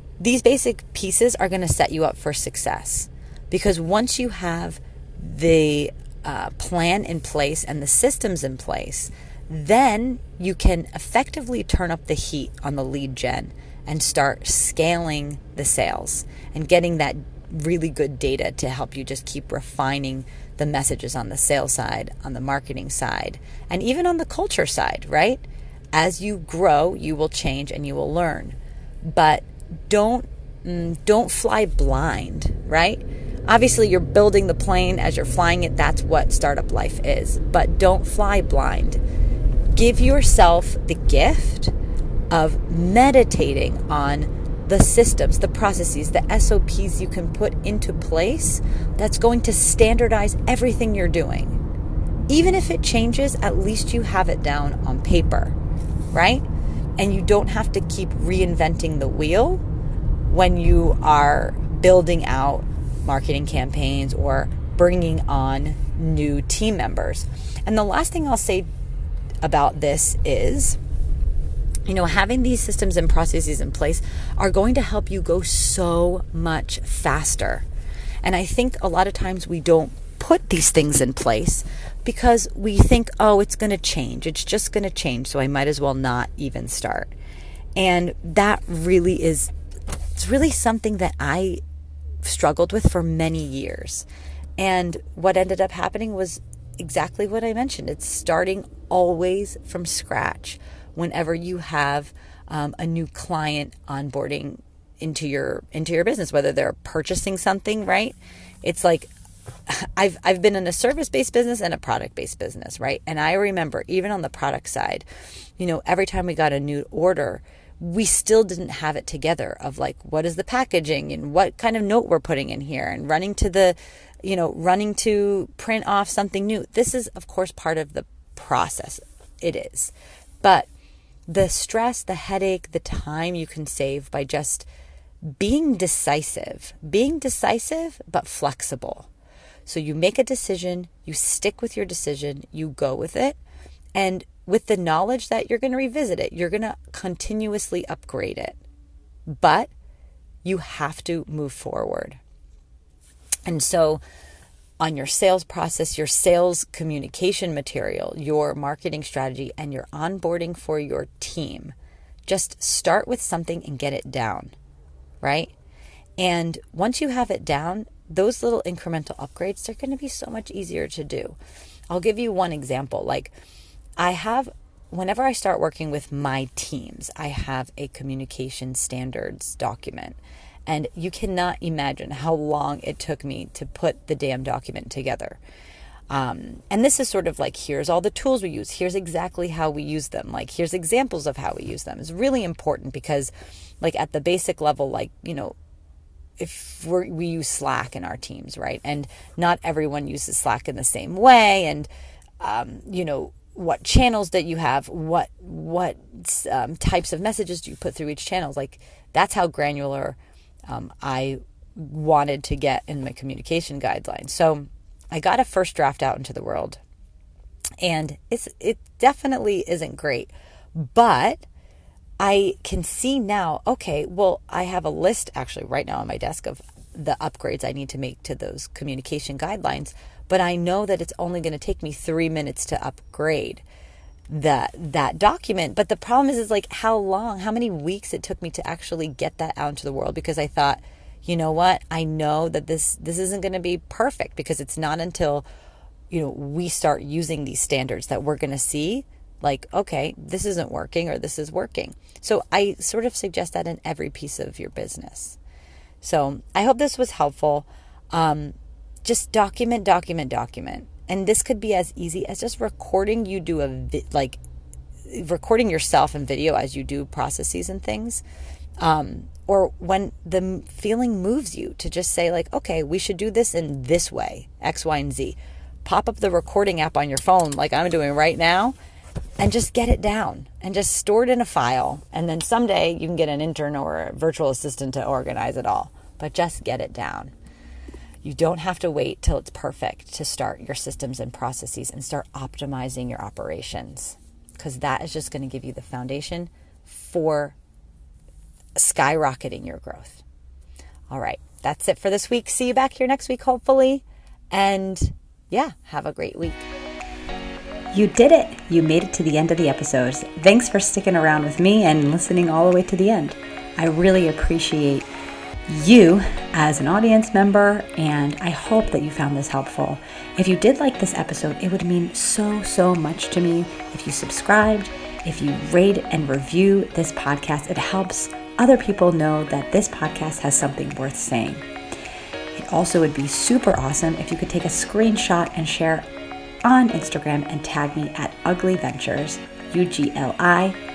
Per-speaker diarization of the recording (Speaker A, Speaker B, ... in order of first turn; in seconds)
Speaker A: 0.2-39.0, 39.7-41.7, 42.3-51.6, 52.3-55.5, 56.1-56.4, 57.0-59.6, 60.3-68.7, 69.4-70.8, 71.8-77.7, 78.2-87.1, 87.8-89.5, 90.1-91.6, 92.2-94.0, 94.6-109.1, 109.7-115.1, 115.6-130.7, 131.3-134.7, 135.3-139.1, 139.7-143.4, 143.9-148.6, 149.3-149.7, 150.4-152.2, 153.4-154.0, 154.8-161.7, 162.3-164.5, 165.2-165.5, 166.2-171.4, 171.9-173.3, 174.0-185.4, 186.1-195.6, 196.4-201.9, 202.4-216.8, 217.8-221.4, 222.2-233.6, 234.3-245.4, 246.1-255.4, 256.0-264.4, 265.1-268.2, 268.8-278.7, 279.4-287.3, 288.2-297.6, 298.8-300.2, 301.1-306.7, 307.9-315.1, 315.7-331.6, 332.5-336.1, 336.6-340.8